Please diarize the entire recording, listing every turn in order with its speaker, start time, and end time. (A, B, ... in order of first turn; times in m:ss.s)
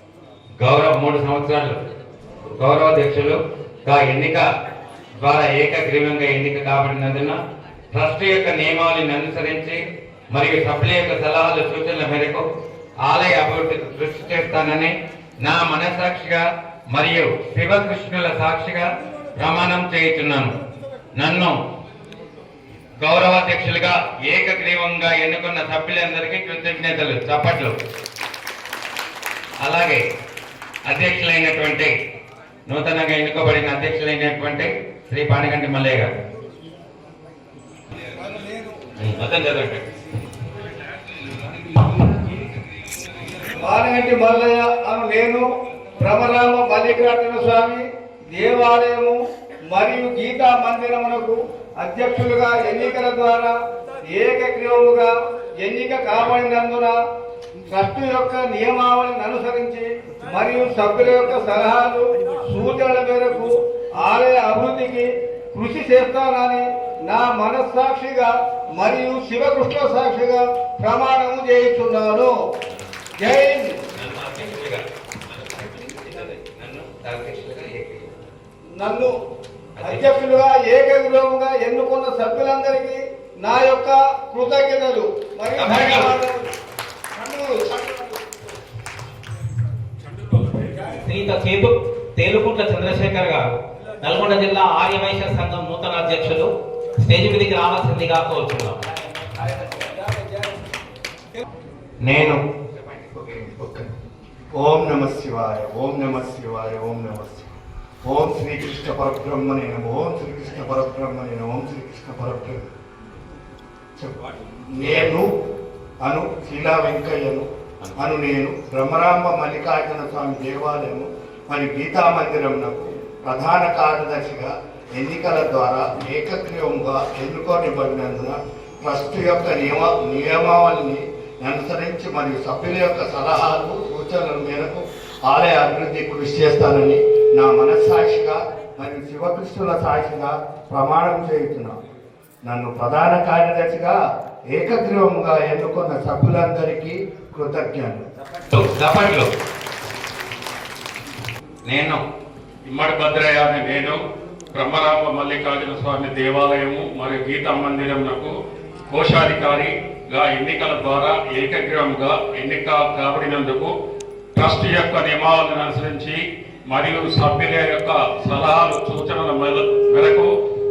0:00.6-0:01.8 A
0:02.5-0:04.4 A
0:05.2-0:07.4 A
0:07.9-0:09.8 A
0:10.3-0:12.4 A
0:13.0-0:20.5 A
0:21.2-0:21.6 A
0:23.0-0:27.7 A
0:29.6-0:30.0 A
0:30.9-0:31.9 A
0:32.7-0:36.1 A
0:39.0-0:39.8 A
0:43.6-0:45.4 B
0:46.0-0:49.2 B
0:49.7-0:53.5 B
0:54.1-0:55.1 B
0:55.6-0:57.0 B
0:57.7-1:12.3 B
1:13.2-1:13.7 B
1:14.0-1:18.1 A
1:18.8-1:19.1 B
1:19.8-1:20.2 A
1:19.9-1:26.5 B
1:25.6-1:26.1 A
1:27.2-1:28.2 B
1:31.0-1:38.8 C
1:42.0-1:42.4 A
1:43.1-1:43.9 D
1:44.5-1:47.5 D
1:48.0-1:52.7 D
1:54.7-1:55.3 D
1:54.8-1:55.2 A
1:56.0-2:21.7 D
1:57.8-1:58.1 A
2:22.4-2:24.0 D
2:24.5-2:28.1 D
2:28.5-2:29.3 A
2:31.7-2:32.0 A
2:32.7-2:34.0 E
2:34.5-2:38.3 E
2:38.9-2:43.7 E
2:44.3-2:50.3 E